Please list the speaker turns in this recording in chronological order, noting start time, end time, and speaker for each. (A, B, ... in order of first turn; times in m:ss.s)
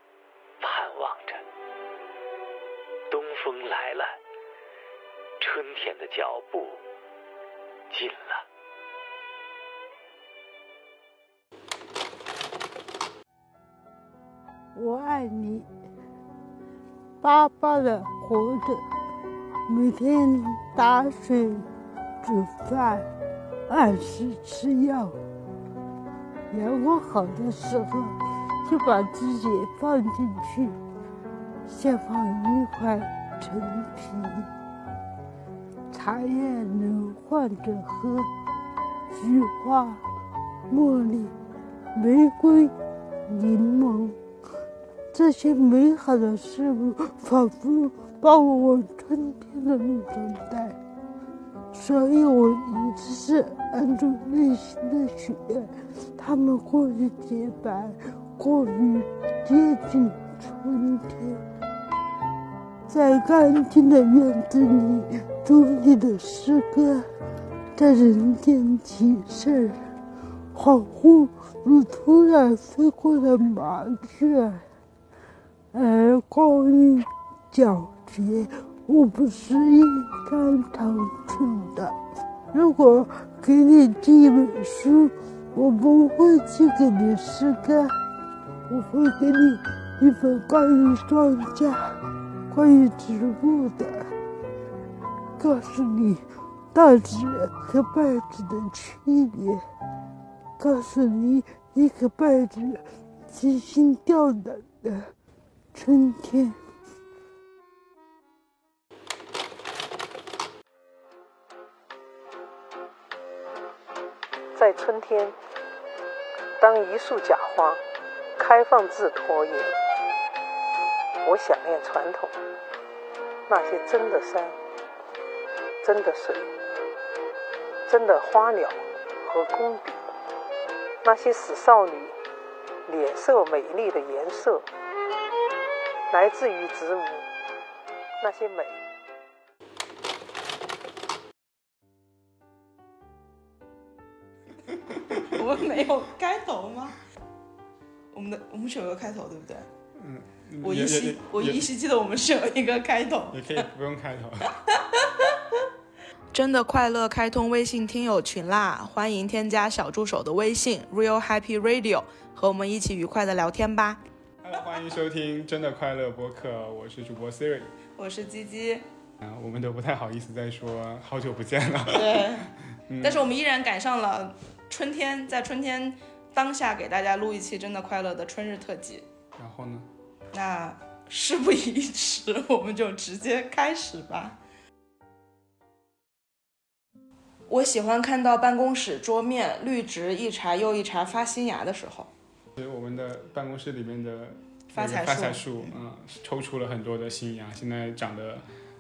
0:00.6-0:01.4 A
0:03.1-0:04.2 A
0:05.4-0:06.8 A
0:07.9-0:08.4 A
0:14.8-0:15.7 B
0:17.2-0:18.8 B
0:19.7-0:21.7 B
0:22.2-0:23.1 B
0:23.7-0:25.2 B
0:26.5-0:30.8 B
0:31.7-0:34.5 B
0:35.9-0:38.3 B
0:39.1-0:40.0 B
0:40.7-0:41.3 B
0:42.0-0:42.7 B
0:43.3-0:44.2 B
0:45.1-0:50.8 B
0:51.7-1:01.4 B
1:02.9-1:07.1 B
1:07.8-1:09.8 B
1:10.5-1:14.6 B
1:15.7-1:22.0 B
1:22.5-1:27.9 B
1:28.7-1:31.9 B
1:32.5-1:34.1 B
1:35.4-1:36.2 B
1:36.7-1:39.6 B
1:40.6-1:45.1 B
1:45.7-1:46.6 B
1:54.6-1:55.4 C
1:56.6-1:57.8 C
1:58.4-1:59.7 C
2:01.2-2:02.3 C
2:03.5-2:04.6 C
2:05.8-2:06.5 C
2:07.9-2:10.0 C
2:11.0-2:12.2 C
2:12.9-2:14.7 C
2:16.1-2:17.3 C
2:18.2-2:18.8 C
2:25.2-2:27.0 D
2:28.1-2:29.7 D
2:30.0-2:31.7 E
2:30.6-2:33.7 D
2:33.3-2:34.5 E
2:34.7-2:35.4 D
2:36.3-2:44.0 D
2:44.4-2:47.7 E
2:48.0-2:48.8 D
2:49.2-2:53.3 E
2:51.9-2:52.5 D
2:53.0-2:59.0 D
2:59.4-2:59.9 E
3:00.3-3:04.4 D
3:07.5-3:12.1 D
3:12.6-3:18.5 E
3:14.7-3:15.8 D